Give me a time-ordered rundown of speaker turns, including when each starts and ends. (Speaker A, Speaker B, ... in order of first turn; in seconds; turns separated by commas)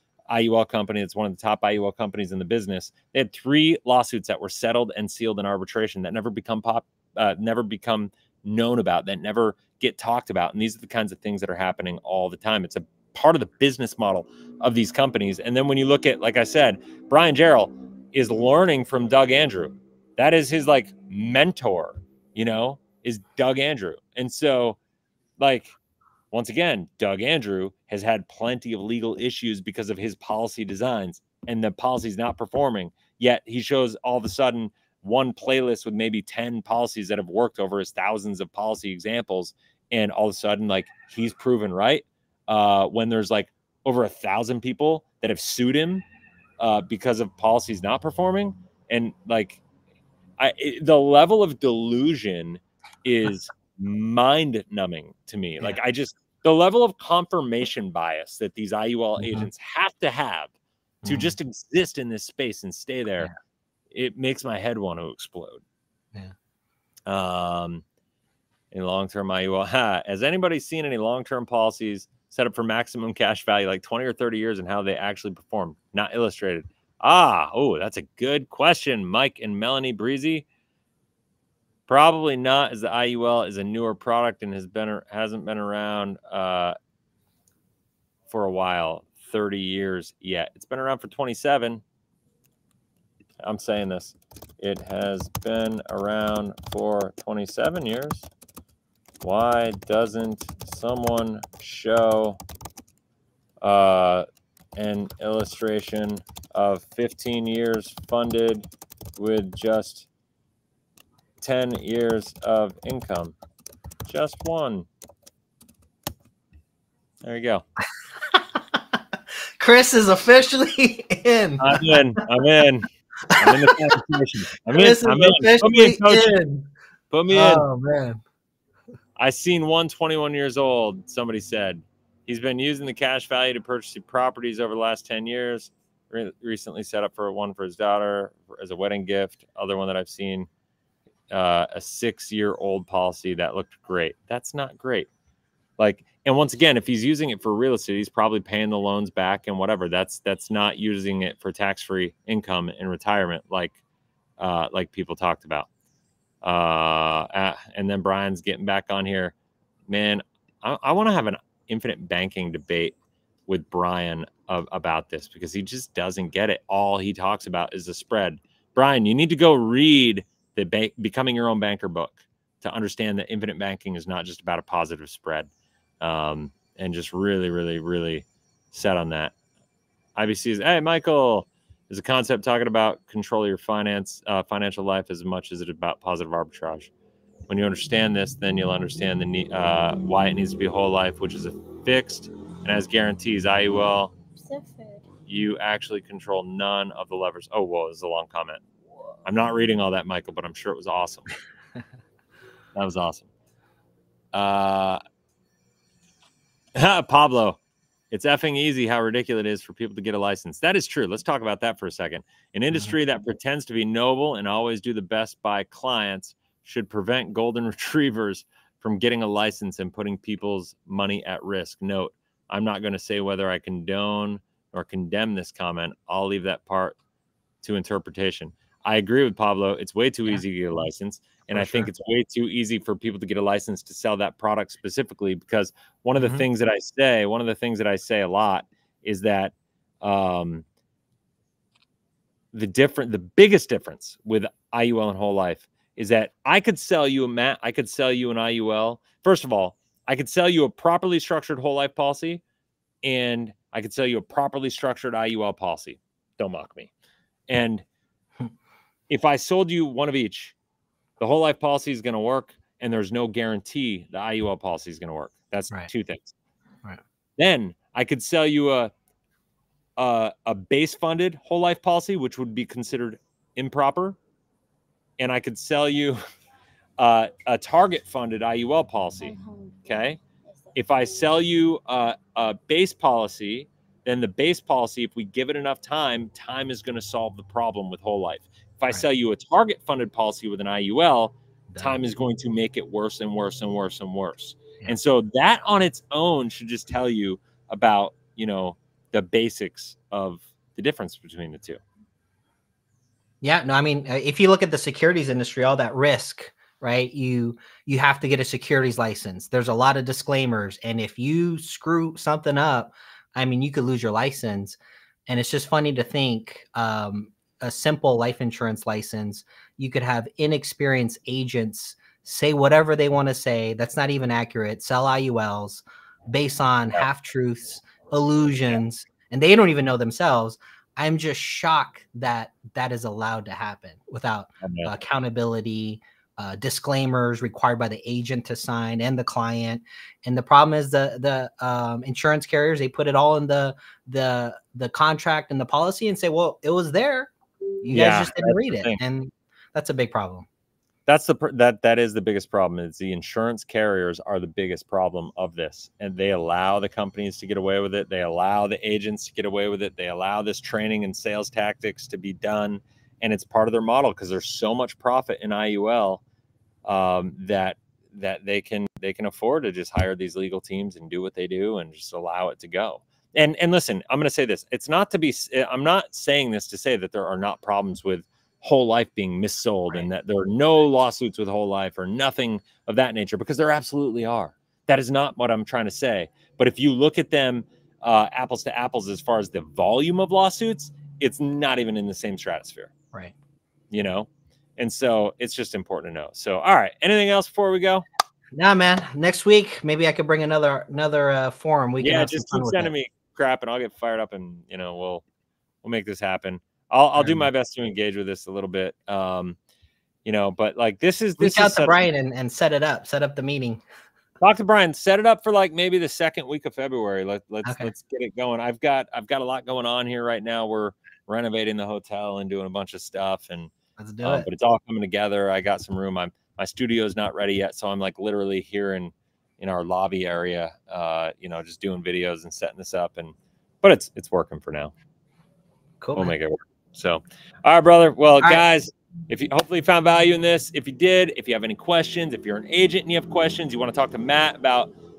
Speaker A: 0.3-24.8, Speaker A: 25.4-25.8, Speaker A: 26.3-46.0, Speaker A: 46.6-49.6, Speaker A: 50.4-60.5, Speaker B: 59.2-59.5, Speaker B: 61.0-61.3, Speaker A: 61.1-63.3, Speaker A: 63.9-65.6, Speaker A: 67.1-67.8, Speaker A: 68.7-80.5, Speaker A: 81.9-86.8, Speaker A: 88.3-91.8, Speaker A: 93.4-98.3, Speaker A: 99.2-102.4, Speaker A: 103.6-108.7, Speaker A: 109.2-110.1, Speaker A: 111.4-113.4, Speaker A: 114.1-114.9, Speaker A: 117.2-117.6, Speaker B: 118.3-118.8, Speaker B: 119.6-122.2, Speaker A: 121.6-126.4, Speaker B: 123.3-124.0, Speaker B: 124.7-126.7, Speaker A: 127.1-127.7, Speaker B: 127.3-128.2, Speaker A: 129.2-140.5, Speaker A: 141.3-145.1, Speaker A: 145.8-153.8, Speaker A: 154.4-155.7, Speaker A: 156.4-159.3, Speaker A: 159.9-162.9, Speaker A: 163.5-175.5, Speaker A: 176.0-179.3, Speaker A: 180.2-186.9, Speaker A: 187.5-194.2, Speaker C: 194.4-195.0, Speaker A: 195.3-198.6, Speaker A: 199.2-201.3, Speaker A: 202.8-203.3, Speaker A: 204.3-205.0, Speaker A: 206.8-207.6, Speaker A: 208.1-227.0, Speaker A: 227.6-240.7, Speaker B: 231.5-231.9, Speaker B: 236.2-236.5, Speaker A: 242.5-252.4, Speaker A: 253.0-256.9, Speaker A: 257.5-257.9, Speaker A: 259.1-260.6, Speaker A: 261.2-266.4, Speaker A: 267.4-268.9, Speaker A: 270.0-274.2, Speaker A: 275.2-276.2, Speaker A: 277.0-279.3, Speaker C: 279.2-280.8, Speaker A: 279.9-280.2, Speaker A: 280.8-301.8, Speaker B: 291.7-292.0, Speaker B: 303.4-347.3, Speaker A: 334.6-334.9, Speaker B: 347.8-350.5, Speaker A: 347.9-349.0, Speaker A: 351.1-366.2, Speaker A: 366.9-392.9, Speaker A: 393.9-398.1, Speaker B: 398.5-402.9, Speaker A: 402.0-405.2, Speaker A: 405.8-409.6, Speaker B: 407.2-407.5, Speaker A: 410.2-412.1, Speaker B: 411.4-413.8, Speaker A: 414.4-423.7, Speaker B: 417.6-417.9, Speaker B: 424.0-424.5, Speaker A: 424.2-434.9, Speaker B: 436.0-436.3, Speaker A: 436.1-444.9